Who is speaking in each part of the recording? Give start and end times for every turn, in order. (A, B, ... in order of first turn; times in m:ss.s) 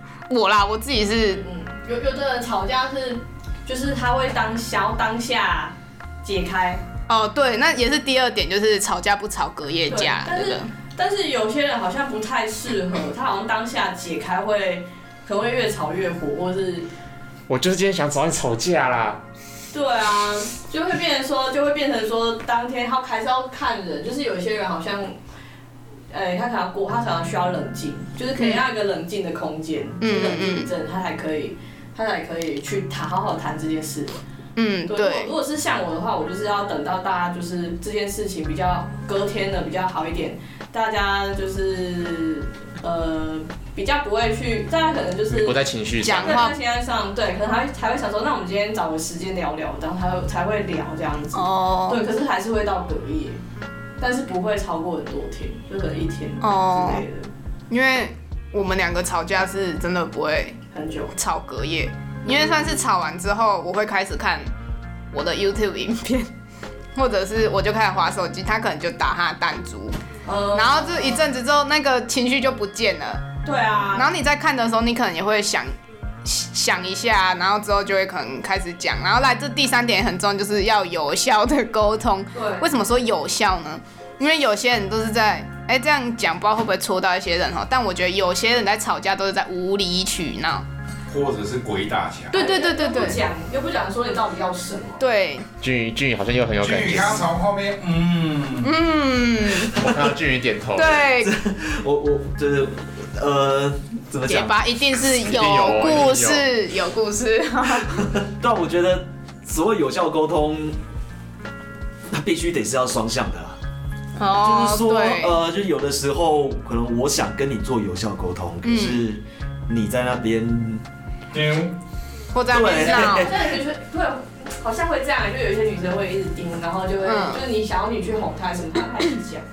0:00.3-0:01.4 A
0:01.4-0:06.8 B
0:07.1-0:10.7 A
0:09.9-0:16.9 B
0:17.5-0:19.2 C
0:19.7-0:25.2 B
0:26.1-0:34.2 B
0:28.4-0:28.6 A
0:30.0-0:30.7 A
0:34.6-0:35.3 A
0:34.9-0:45.6 B
0:45.3-0:46.5 C
0:46.0-0:46.6 A
0:46.1-0:53.4 B
0:51.3-0:52.0 A
0:54.0-0:57.3 B
0:56.4-0:57.0 A
0:57.7-1:00.6 A
1:00.7-1:01.1 B
1:01.1-1:04.5 A
1:02.2-1:02.9 B
1:05.1-1:06.3 A
1:07.0-1:09.9 A
1:10.3-1:11.2 B
1:10.5-1:13.2 A
1:13.4-1:14.1 B
1:13.9-1:15.7 A
1:16.2-1:30.6 A
1:22.4-1:22.7 B
1:31.1-1:32.4 D
1:32.3-1:35.0 B
1:32.3-1:33.2 A
1:35.0-1:35.5 A
1:35.6-1:37.3 C
1:36.6-1:38.8 D
1:38.6-1:39.8 A
1:39.7-1:40.1 E
1:39.7-1:41.1 C
1:40.8-1:41.3 A
1:41.2-1:44.6 E
1:44.3-1:48.1 A
1:45.1-1:46.5 C
1:48.0-1:50.8 E
1:52.1-1:53.6 E
1:54.2-1:55.4 A
1:54.4-2:00.8 E
1:58.6-1:59.0 A
2:01.3-2:01.7 D
2:02.3-2:03.3 A
2:02.5-2:03.5 E
2:02.6-2:09.4 B
2:07.0-2:07.4 A